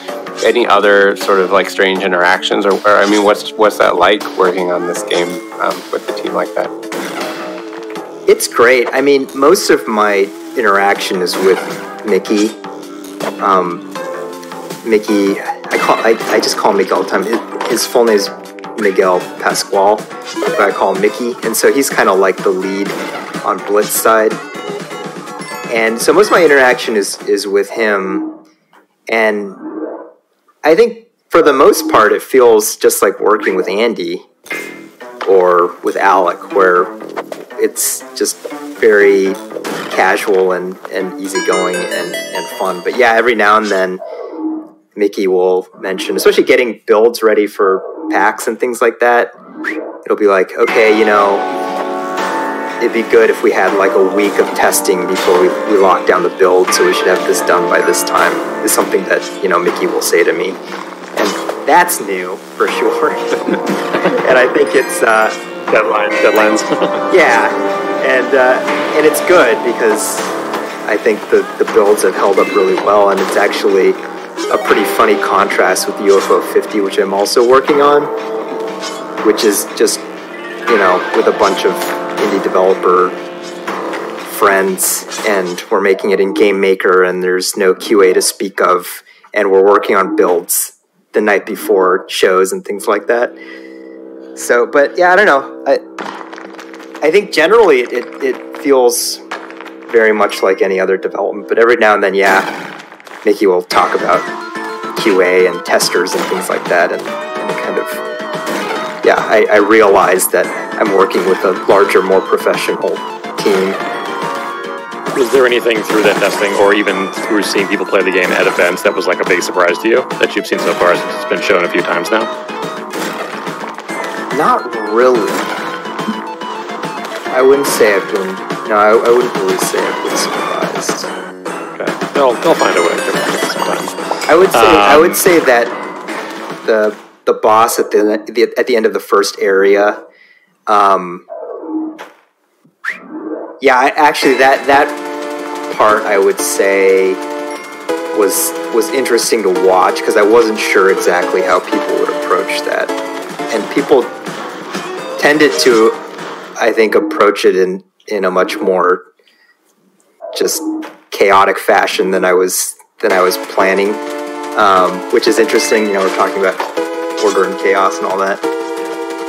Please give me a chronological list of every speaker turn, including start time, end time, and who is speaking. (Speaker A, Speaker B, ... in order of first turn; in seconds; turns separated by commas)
Speaker A: 0.4-6.7, Speaker B: 8.3-12.6, Speaker B: 13.4-13.9, Speaker B: 14.8-24.4, Speaker B: 25.7-28.3, Speaker B: 29.1-29.6, Speaker B: 30.6-34.2, Speaker B: 35.2-37.0, Speaker B: 37.6-44.0, Speaker B: 44.9-49.4, Speaker B: 50.0-51.5, Speaker B: 52.8-60.6, Speaker B: 61.1-63.6, Speaker B: 64.2-65.4, Speaker C: 65.7-67.0, Speaker B: 67.1-78.1, Speaker B: 79.2-80.1, Speaker B: 80.7-83.2, Speaker B: 84.2-93.3, Speaker B: 94.3-95.8, Speaker B: 97.0-99.2, Speaker B: 99.9-102.5, Speaker B: 103.2-104.3, Speaker B: 105.0-108.0, Speaker B: 109.0-113.8, Speaker C: 115.1-122.3, Speaker B: 124.3-125.5, Speaker B: 127.3-131.1, Speaker C: 131.7-134.0, Speaker B: 134.3-135.8, Speaker C: 134.5-135.2, Speaker B: 136.6-140.0, Speaker B: 140.7-141.2, Speaker B: 143.6-145.0, Speaker B: 145.7-147.2, Speaker B: 148.1-152.9, Speaker B: 153.5-154.2, Speaker B: 155.2-156.0, Speaker B: 156.6-159.1, Speaker B: 160.3-164.0, Speaker B: 164.5-168.4